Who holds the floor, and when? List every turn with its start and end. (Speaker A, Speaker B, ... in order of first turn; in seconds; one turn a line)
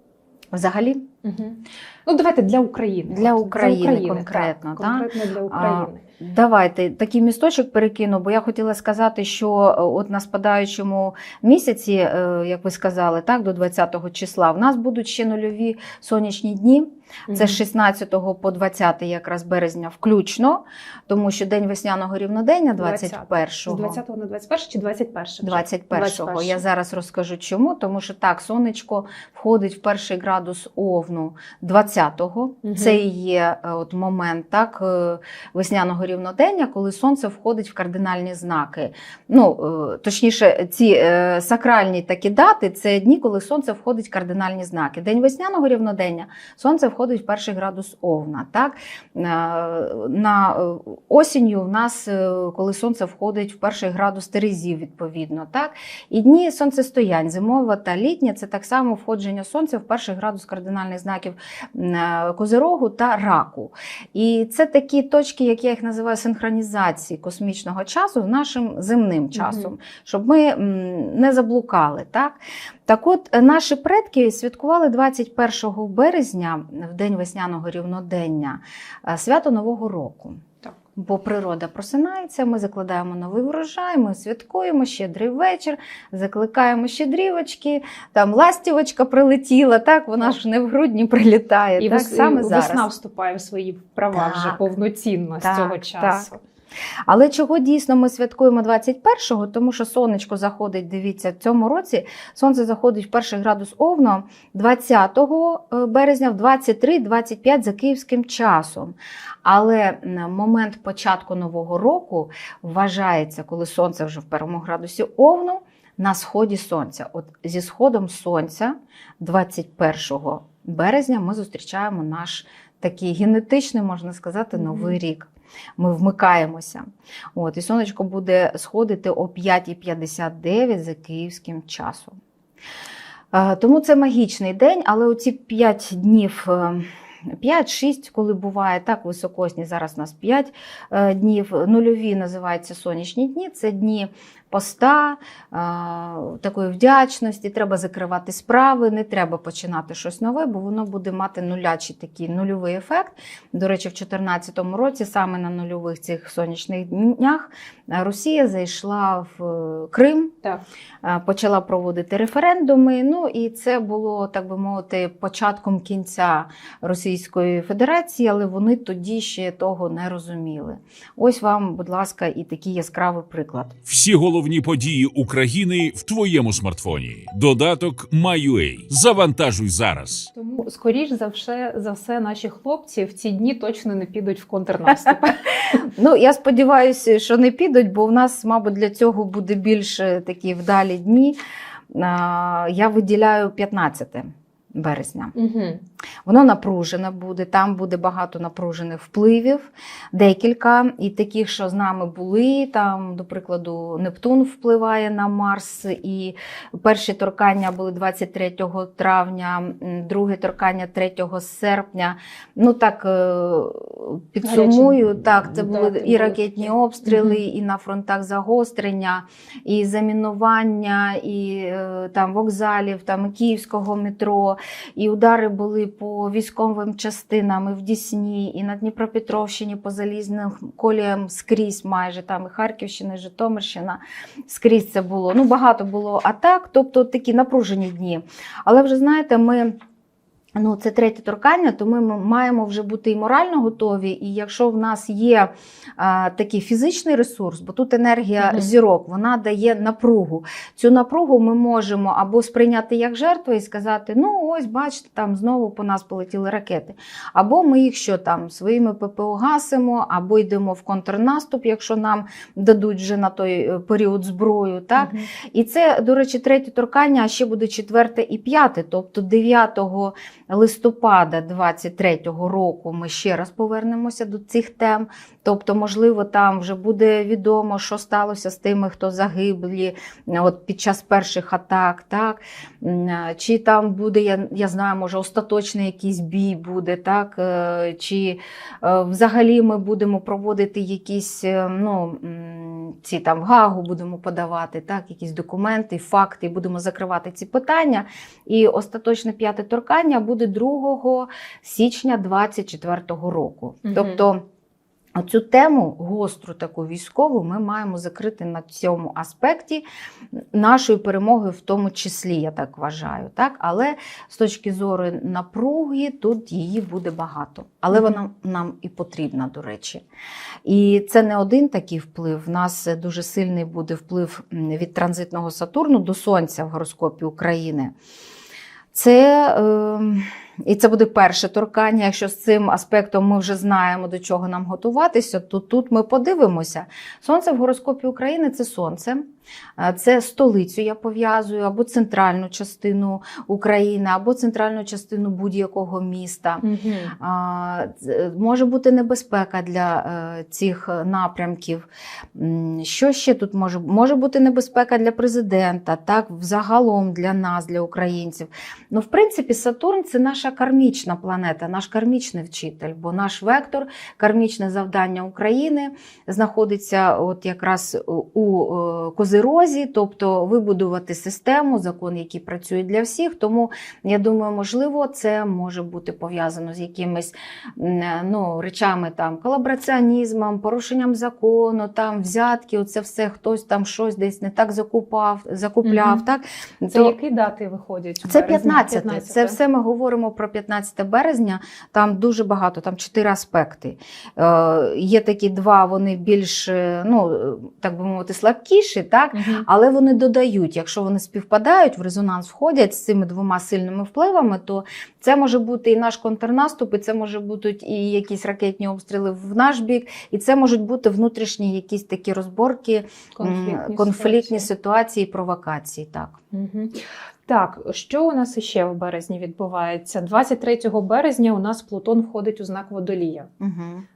Speaker A: 0.5-1.1
Speaker B: 1.2-6.0
Speaker A: 3.1-24.0
Speaker B: 17.3-17.6
Speaker B: 22.8-26.6
Speaker A: 25.4-80.4
Speaker B: 32.6-33.0
Speaker B: 69.3-69.7
Speaker A: 81.0-92.8
Speaker B: 91.8-96.4
Speaker A: 94.1-94.6
Speaker A: 95.4-96.3
Speaker A: 97.1-132.2
Speaker B: 124.5-125.0
Speaker A: 133.3-160.3
Speaker A: 161.0-173.8
Speaker C: 173.8-180.3
Speaker B: 180.3-185.8
Speaker A: 185.7-191.4
Speaker A: 191.9-195.3
Speaker B: 195.3-195.8
Speaker A: 196.2-239.7
Speaker B: 214.4-217.4
Speaker A: 240.6-304.4
Speaker B: 248.4-248.7
Speaker B: 265.0-265.3
Speaker B: 303.9-304.2
Speaker A: 305.1-320.0
Speaker A: 320.6-327.9
Speaker A: 328.9-339.2
Speaker A: 339.8-346.6
Speaker B: 346.6-347.1
Speaker A: 347.2-387.1
Speaker B: 385.8-386.2
Speaker B: 386.9-389.6
Speaker A: 388.2-416.4
Speaker B: 399.3-399.6
Speaker B: 413.3-414.7
Speaker B: 416.5-423.5
Speaker A: 423.6-424.1